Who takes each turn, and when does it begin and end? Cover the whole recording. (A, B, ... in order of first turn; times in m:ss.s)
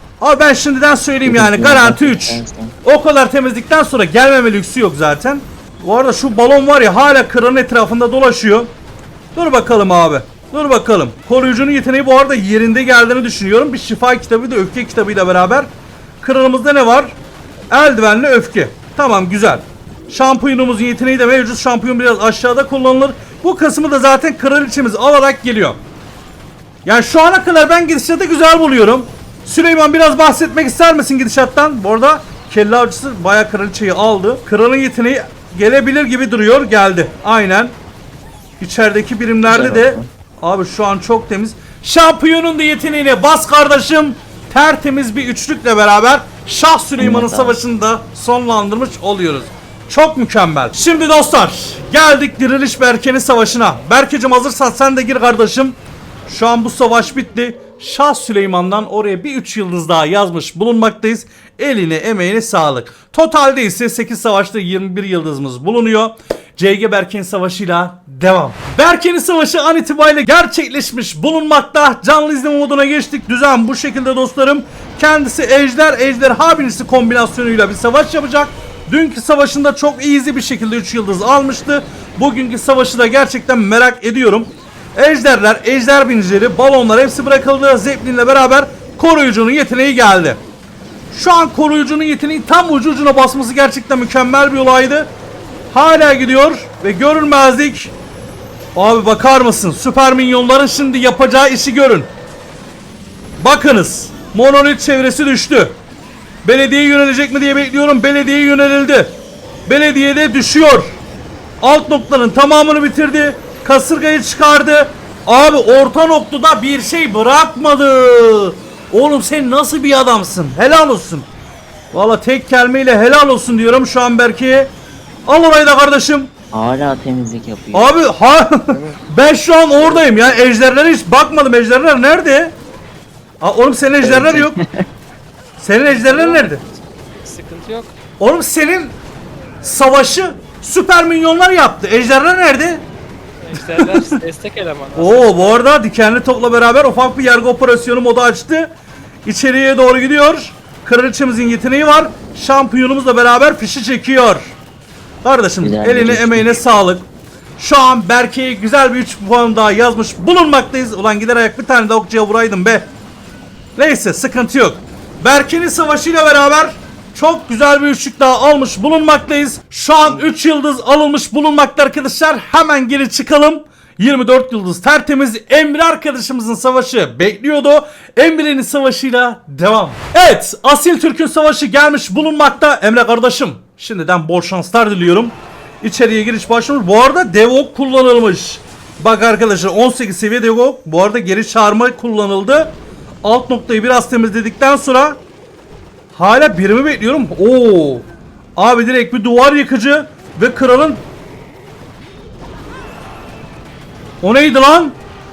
0:00.2-0:08.7 A
0:01.2-0:02.7 B
0:09.3-0:15.7 A
0:16.2-0:17.1 A
0:17.7-0:25.8 A
0:26.8-0:37.7 A
0:38.6-1:30.4 A
0:39.4-0:40.0 B
0:47.0-0:47.6 B
1:31.1-1:35.1 A
1:35.7-1:37.9 A
1:38.7-1:42.1 A
1:43.4-1:45.8 A
1:46.4-1:49.2 A
1:49.7-1:51.0 A
1:51.6-2:01.2 A
2:01.9-2:04.7 A
2:05.3-2:06.3 A
2:06.5-2:08.0 B
2:07.7-2:12.5 A
2:13.4-2:14.5 A
2:14.0-2:14.8 B
2:15.6-2:16.6 A
2:15.8-2:17.9 C
2:18.2-2:18.9 A
2:19.6-2:22.8 A
2:23.4-2:25.6 C
2:23.5-2:24.2 A
2:24.9-2:28.7 A
2:29.2-2:34.5 A
2:35.2-2:42.9 A
2:35.6-2:36.6 B
2:43.8-3:15.2 A
3:16.1-3:21.0 A
3:24.2-3:24.9 A